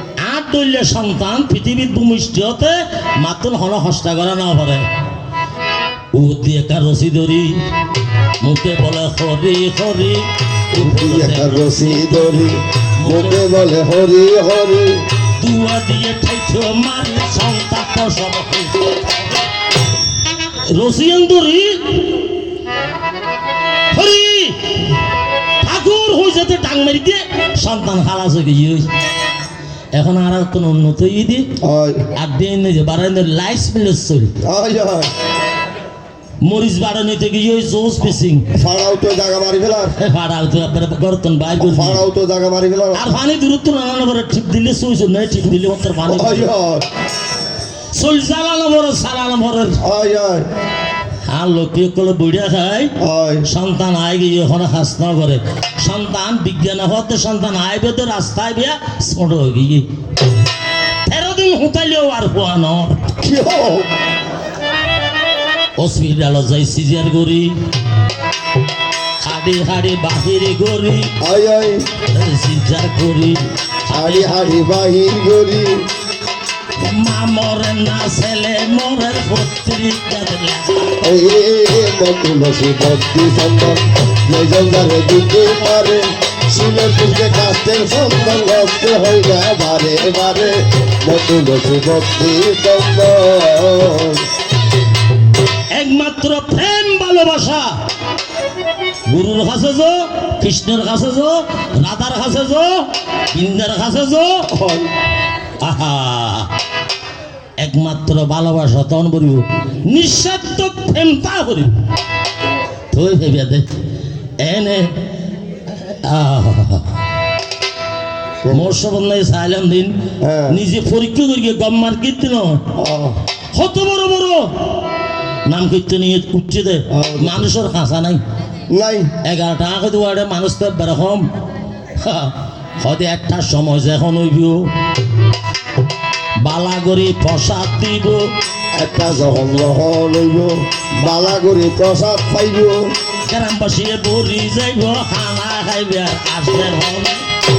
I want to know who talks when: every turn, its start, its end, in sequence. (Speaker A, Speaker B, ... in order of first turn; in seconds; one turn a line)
Speaker A: 0.2-4.8
Speaker A: 6.1-7.6
Speaker A: 8.4-13.4
Speaker B: 10.7-15.0
Speaker A: 15.4-19.4
Speaker A: 20.7-22.2
Speaker A: 23.9-25.0
Speaker A: 25.6-28.9
Speaker A: 29.9-31.5
Speaker B: 31.6-32.0
Speaker A: 32.1-34.3
Speaker B: 34.4-35.1
Speaker A: 36.4-38.5
Speaker B: 38.5-39.9
Speaker A: 40.0-42.0
Speaker B: 41.6-43.1
Speaker A: 42.9-46.5
Speaker B: 46.0-46.8
Speaker A: 47.9-49.8
Speaker B: 49.8-50.5
Speaker A: 51.2-52.9
Speaker B: 53.0-53.5
Speaker A: 53.5-59.9
Speaker A: 61.0-63.1
Speaker B: 63.2-63.9
Speaker A: 65.8-67.5
Speaker A: 69.2-71.1
Speaker B: 71.2-71.8
Speaker A: 72.1-74.4
Speaker B: 73.9-75.8
Speaker A: 76.8-81.0
Speaker B: 81.0-94.2
Speaker A: 95.7-97.8
Speaker A: 99.1-104.5
Speaker B: 104.5-104.9
Speaker A: 105.6-106.5
Speaker A: 107.6-111.7
Speaker A: 112.9-113.7
Speaker A: 114.4-114.9
Speaker A: 115.8-116.9
Speaker B: 118.4-118.8
Speaker A: 118.5-122.6
Speaker B: 120.2-120.6
Speaker B: 122.8-123.2
Speaker A: 123.5-124.5
Speaker A: 125.5-128.2
Speaker B: 126.9-127.5
Speaker B: 128.7-129.1
Speaker A: 129.2-131.3
Speaker A: 131.9-134.7
Speaker A: 136.4-138.2
Speaker B: 138.7-142.9
Speaker A: 143.3-147.2